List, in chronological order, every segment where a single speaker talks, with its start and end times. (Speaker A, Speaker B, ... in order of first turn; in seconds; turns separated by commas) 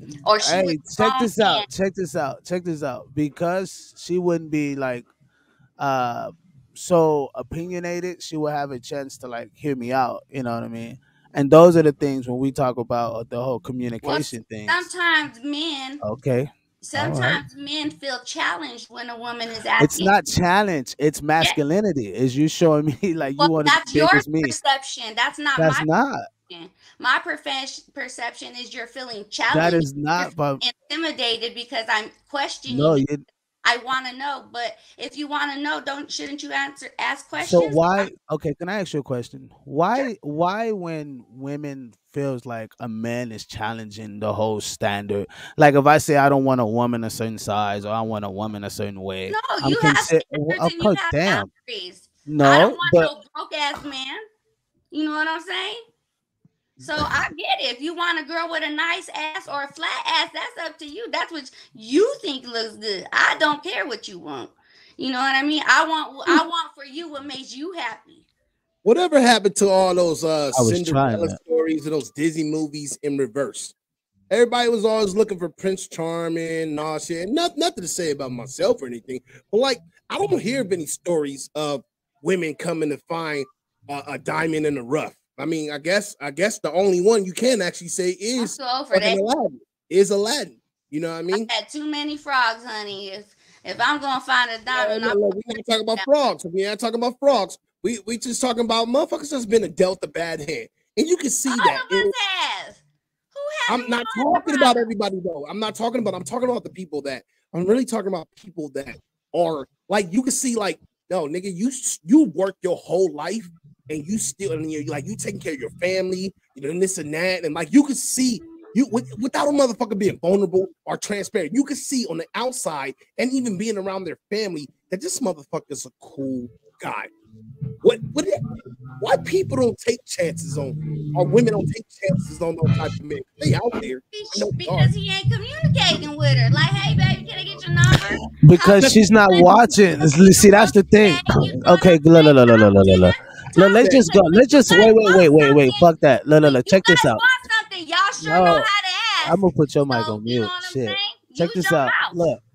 Speaker A: 0.2-1.7, Speaker B: 0.4-5.1, Speaker B: 5.8-14.9, Speaker A: 14.0-16.0, Speaker B: 16.0-17.4, Speaker A: 16.8-20.1, Speaker B: 19.8-24.5, Speaker A: 23.4-25.9, Speaker B: 25.6-26.2, Speaker A: 26.5-33.1, Speaker B: 29.5-30.6, Speaker B: 32.7-33.2, Speaker A: 33.6-38.1, Speaker B: 37.4-51.5, Speaker A: 49.3-54.2, Speaker B: 52.2-53.1, Speaker A: 54.9-55.8, Speaker A: 56.8-68.2, Speaker C: 68.8-73.7, Speaker B: 70.5-71.4, Speaker C: 74.3-91.5, Speaker A: 88.4-89.2, Speaker A: 91.3-95.2, Speaker C: 94.7-102.1, Speaker A: 95.9-96.3, Speaker A: 101.5-102.8, Speaker A: 103.3-104.9, Speaker C: 103.7-127.1, Speaker C: 127.8-128.4, Speaker C: 129.0-134.9, Speaker A: 134.1-145.9, Speaker B: 138.4-147.2, Speaker C: 143.5-144.1, Speaker A: 146.5-152.2, Speaker B: 148.2-148.7, Speaker B: 149.2-152.4